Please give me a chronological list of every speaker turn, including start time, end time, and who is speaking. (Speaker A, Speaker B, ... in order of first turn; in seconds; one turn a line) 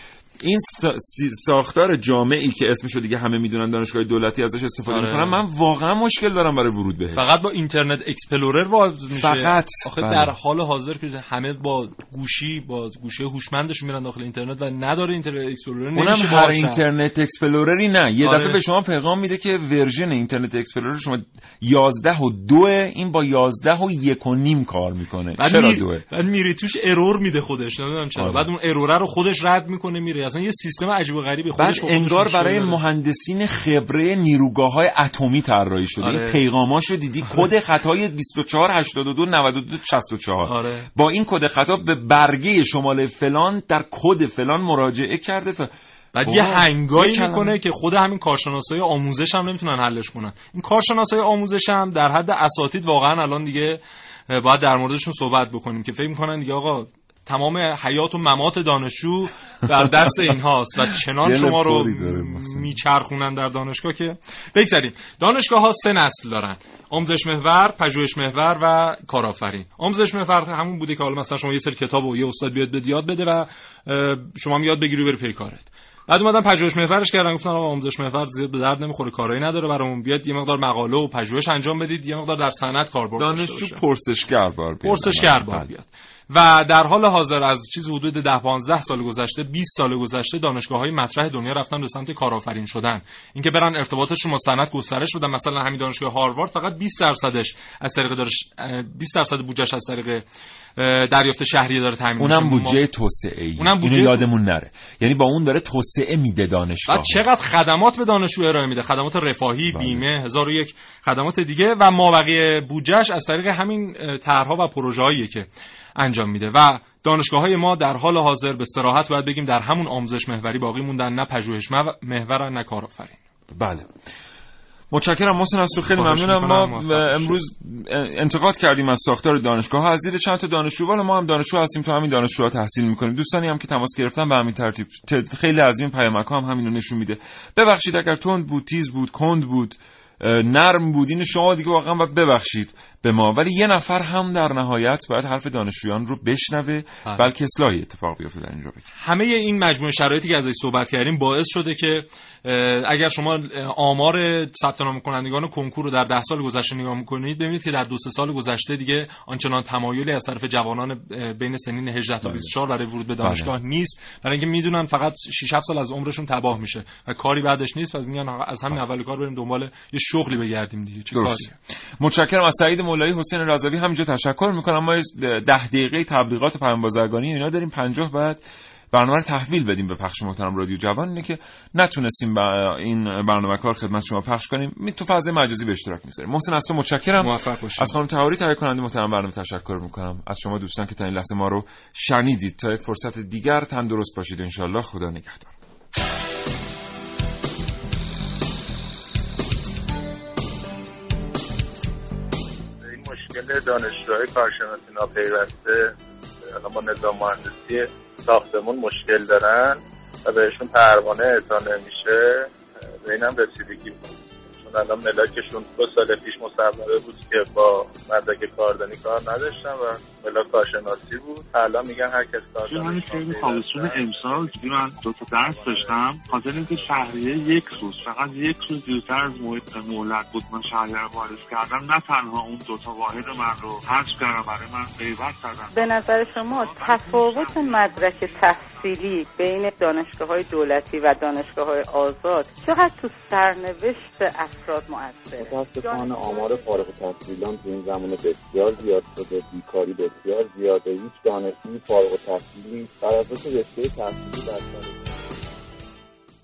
Speaker A: 0.4-7.2
Speaker B: 4.9-5.4
Speaker B: 7.1-16.8
Speaker A: 9.1-10.3
Speaker A: 15.9-26.0
Speaker B: 18.2-18.6
Speaker B: 25.4-32.8
Speaker A: 28.2-28.5
Speaker A: 31.6-45.7
Speaker B: 36.0-36.4
Speaker B: 40.5-40.9
Speaker B: 46.1-83.8
Speaker A: 46.2-47.6
Speaker A: 61.2-62.8
Speaker A: 83.2-85.7
Speaker B: 84.8-100.2
Speaker B: 100.8-102.8
Speaker A: 102.2-107.2
Speaker B: 103.6-104.3
Speaker B: 106.9-123.2
Speaker A: 109.7-110.0
Speaker A: 123.5-123.8
Speaker A: 124.9-148.9
Speaker B: 125.9-127.4
Speaker B: 149.0-171.5
Speaker A: 162.2-162.5
Speaker A: 163.2-163.5
Speaker A: 171.1-195.5
Speaker B: 187.2-187.9
Speaker C: 202.8-205.9
Speaker C: 206.5-212.5
Speaker C: 213.0-228.1
Speaker D: 222.7-236.1
Speaker E: 235.7-246.4
Speaker D: 236.6-238.8
Speaker F: 245.4-255.2